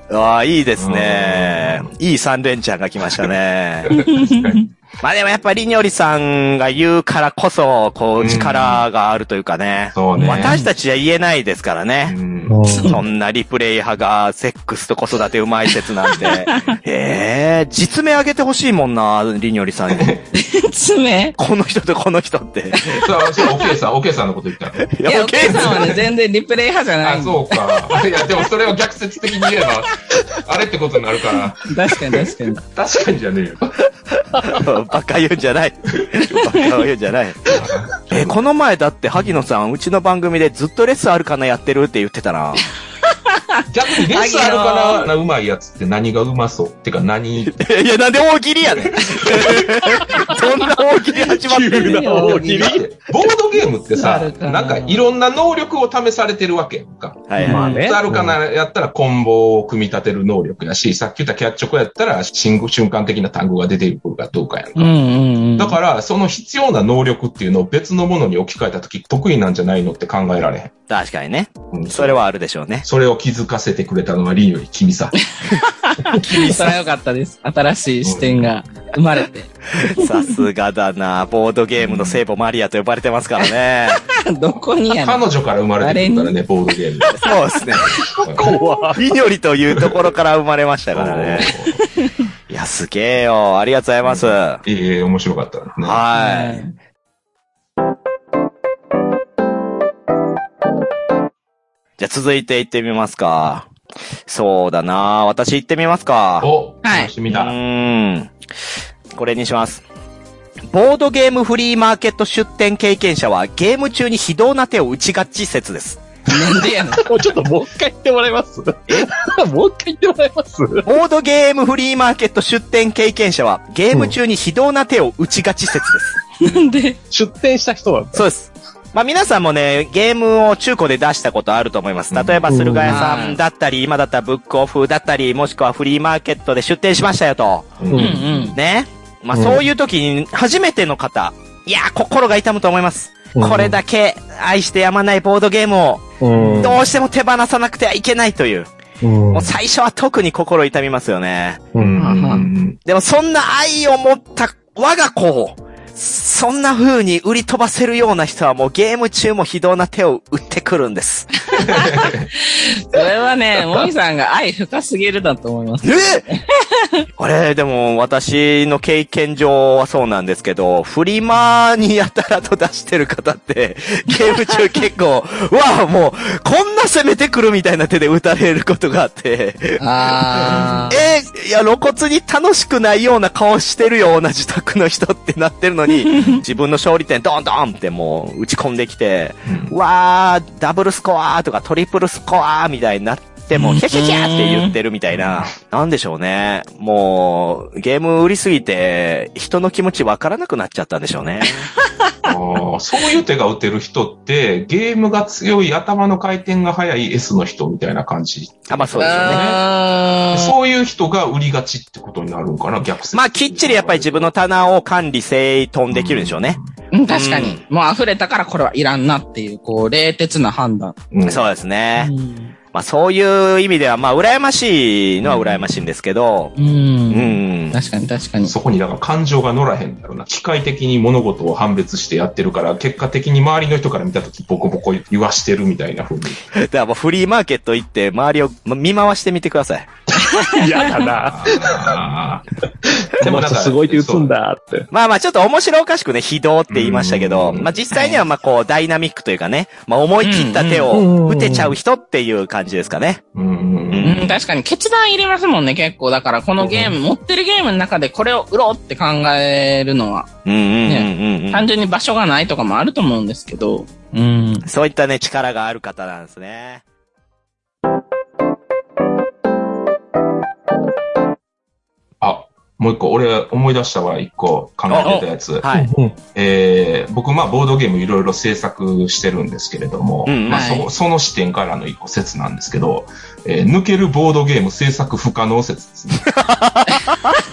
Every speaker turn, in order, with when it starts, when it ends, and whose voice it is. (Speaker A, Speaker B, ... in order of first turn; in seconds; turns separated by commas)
Speaker A: 0.1-3.9, Speaker B: 0.8-1.9, Speaker B: 3.9-4.7, Speaker C: 3.9-4.7, Speaker A: 5.0-12.2, Speaker B: 8.2-8.8, Speaker B: 9.9-10.6, Speaker C: 10.2-10.7, Speaker B: 12.1-12.6, Speaker D: 12.5-13.0, Speaker C: 12.6-13.0, Speaker A: 12.9-20.1, Speaker C: 16.1-16.8, Speaker B: 19.9-20.2, Speaker C: 20.3-21.4, Speaker A: 21.4-22.9, Speaker C: 22.7-23.0, Speaker B: 22.9-26.0, Speaker A: 24.9-25.9, Speaker C: 25.0-27.5, Speaker B: 27.0-33.9, Speaker C: 31.6-32.6, Speaker A: 34.1-37.5, Speaker B: 37.5-38.4, Speaker A: 38.1-42.6, Speaker C: 43.3-43.6, Speaker B: 43.7-47.5, Speaker A: 44.1-45.1, Speaker C: 44.2-44.8, Speaker A: 47.4-52.3, Speaker B: 48.7-49.7, Speaker D: 51.1-52.8, Speaker C: 51.6-52.7, Speaker B: 52.3-65.0, Speaker C: 54.0-55.0, Speaker A: 57.3-57.6, Speaker C: 57.4-57.8, Speaker D: 57.4-58.4, Speaker C: 64.8-65.8, Speaker B: 65.6-70.7, Speaker A: 70.9-72.8, Speaker B: 71.7-72.2, Speaker B: 72.8-75.2, Speaker C: 75.4-80.3, Speaker B: 78.0-78.5, Speaker A: 79.8-84.0, Speaker B: 81.8-82.2, Speaker C: 83.9-85.3, Speaker B: 84.9-87.3, Speaker C: 85.8-86.3, Speaker C: 87.0-88.1, Speaker A: 87.1-88.0, Speaker B: 88.2-88.6, Speaker D: 88.3-89.0, Speaker A: 88.9-91.5, Speaker B: 90.9-91.8, Speaker A: 92.5-94.6, Speaker B: 94.0-96.0, Speaker A: 95.8-96.6, Speaker C: 96.1-96.7, Speaker A: 102.0-103.7, Speaker A: 104.2-106.5, Speaker B: 106.4-107.5, Speaker C: 106.8-107.1, Speaker A: 107.3-108.3, Speaker A: 109.1-109.8, Speaker A: 110.7-116.0, Speaker C: 116.3-117.0, Speaker D: 117.0-120.9, Speaker A: 120.8-126.2, Speaker C: 126.4-127.0, Speaker D: 127.1-128.2, Speaker A: 128.1-137.8, Speaker B: 132.1-132.4, Speaker D: 132.5-133.1, Speaker C: 132.8-133.4, Speaker B: 137.8-138.4, Speaker D: 137.9-138.2, Speaker C: 137.9-138.6, Speaker A: 138.5-146.1, Speaker D: 139.3-139.6, Speaker D: 143.3-143.8, Speaker D: 146.2-146.8, Speaker C: 146.3-146.8, Speaker A: 146.6-148.7, Speaker D: 149.0-149.6, Speaker A: 149.3-151.6, Speaker D: 151.7-152.0, Speaker B: 151.8-152.8, Speaker C: 152.0-152.5, Speaker A: 152.8-161.3, Speaker C: 161.5-167.0, Speaker B: 161.6-162.3, Speaker A: 165.8-166.2, Speaker A: 167.2-201.7, Speaker C: 179.8-181.0, Speaker B: 180.5-180.9, Speaker C: 186.0-186.4, Speaker B: 189.4-189.8, Speaker C: 193.5-194.7, Speaker B: 195.1-195.5, Speaker B: 202.2-209.6, Speaker A: 208.7-209.6, Speaker C: 209.0-210.5, Speaker B: 210.3-214.3, Speaker A: 213.1-216.6, Speaker B: 215.9-216.7, Speaker C: 216.9-221.0, Speaker A: 217.1-217.6, Speaker B: 221.1-221.5, Speaker A: 221.2-222.1, Speaker C: 221.9-222.5, Speaker A: 222.7-226.5, Speaker B: 225.2-225.9, Speaker C: 226.6-228.5, Speaker A: 227.1-227.7, Speaker B: 228.4-236.4, Speaker A: 236.5-239.9, Speaker C: 240.2-241.1, Speaker D: 240.4-242.0, Speaker B: 241.1-242.4, Speaker D: 242.8-244.9, Speaker B: 243.2-244.3, Speaker A: 244.9-253.2, Speaker B: 246.7-247.7, Speaker C: 247.9-248.2, Speaker C: 250.2-250.9, Speaker D: 250.9-251.8, Speaker B: 253.3-254.4, Speaker A: 253.9-254.3, Speaker C: 254.0-260.3, Speaker B: 256.6-256.9, Speaker A: 260.4-261.6, Speaker C: 260.9-264.6, Speaker A: 264.6-266.8, Speaker B: 272.2-275.7, Speaker A: 274.9-275.9, Speaker C: 275.0-275.3, Speaker D: 275.7-276.1, Speaker B: 276.3-286.3, Speaker A: 280.2-280.8, Speaker C: 280.5-280.9, Speaker A: 286.3-287.3